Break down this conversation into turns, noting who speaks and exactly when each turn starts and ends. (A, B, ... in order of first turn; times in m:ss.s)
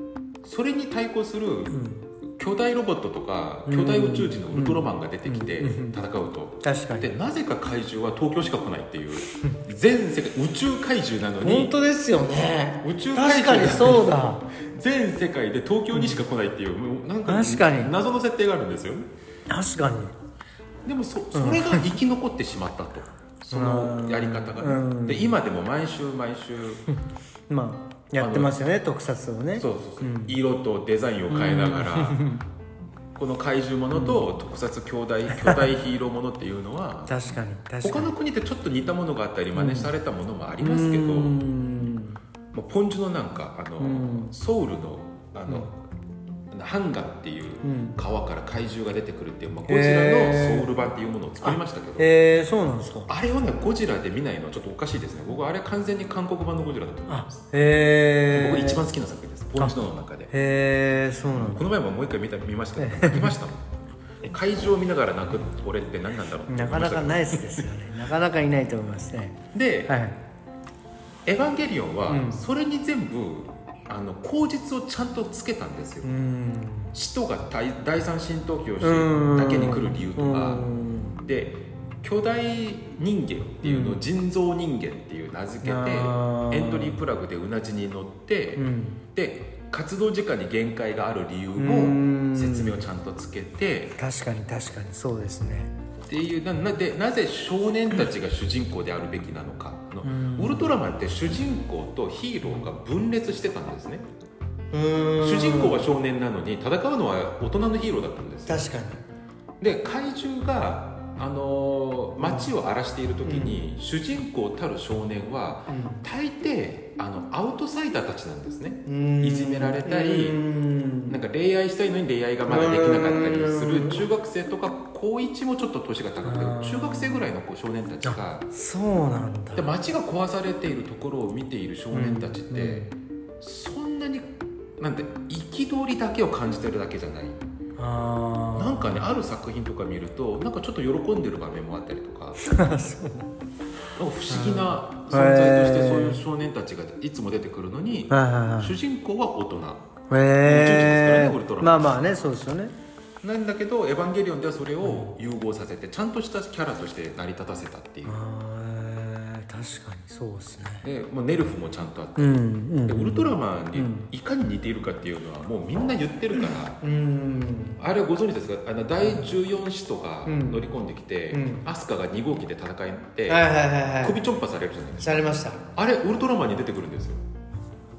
0:00.4-0:11.7 A
0:01.7-0:02.1 B
0:03.6-0:06.0 B
0:06.6-0:07.1 B
0:11.4-0:14.4 B
0:12.8-0:19.0 A
0:15.9-0:16.2 B
0:17.2-0:17.9 B
0:19.5-0:20.1 B
0:20.8-0:26.8 A
0:21.3-0:21.9 B
0:23.5-0:25.3 B
0:27.5-0:30.3 B
0:28.2-0:28.6 A
0:29.6-0:32.2 A
0:31.3-0:32.4 B
0:33.1-0:37.1 A
0:33.9-0:34.2 B
0:35.3-0:35.7 B
0:37.1-0:38.1 B
0:37.8-0:41.4 A
0:39.5-0:39.9 B
0:40.6-0:42.2 B
0:42.5-0:45.7 A
0:43.8-0:44.3 B
0:46.5-0:52.1 A
0:47.6-0:48.0 B
0:49.6-0:50.7 B
0:51.4-0:53.1 B
0:53.1-0:57.4 A
0:57.1-0:58.8 B
0:58.3-1:00.3 A
1:00.3-1:01.6 B
1:01.5-1:07.7 A
1:02.8-1:03.3 B
1:06.5-1:10.2 B
1:09.5-1:09.9 A
1:11.2-1:16.1 A
1:12.1-1:12.4 B
1:16.0-1:16.9 B
1:16.9-1:20.7 A
1:18.8-1:21.2 B
1:21.2-1:34.0 A
1:23.6-1:24.0 B
1:25.6-1:27.0 B
1:28.6-1:29.0 B
1:31.6-1:32.8 B
1:34.0-1:35.7 B
1:36.1-1:44.0 A
1:40.0-1:40.7 B
1:44.7-1:45.8 B
1:45.2-1:48.7 A
1:48.5-1:49.0 B
1:49.6-2:00.4 A
1:52.2-1:52.5 B
1:53.2-1:53.6 B
1:55.7-1:56.0 B
1:58.8-2:01.2 B
2:01.1-2:08.5 A
2:02.5-2:04.0 B
2:06.2-2:07.2 B
2:08.0-2:09.7 B
2:09.5-2:12.8 A
2:11.9-2:12.9 B
2:13.4-2:17.4 A
2:17.8-2:19.0 B
2:18.6-2:22.4 A
2:22.4-2:23.3 B
2:24.0-2:29.8 A
2:24.3-2:26.2 B
2:28.1-2:28.7 B
2:30.1-2:32.7 B
2:30.4-2:31.9 A
2:33.2-2:38.2 A
2:34.8-2:35.1 B
2:38.1-2:40.8 B
2:40.8-2:46.8 A
2:42.2-2:44.1 B
2:46.8-2:47.8 B
2:47.8-2:53.4 A
2:49.0-2:49.3 B
2:50.2-2:50.7 B
2:51.3-2:51.6 B
2:53.3-2:54.2 B
2:54.0-2:57.2 A
2:55.0-2:55.6 B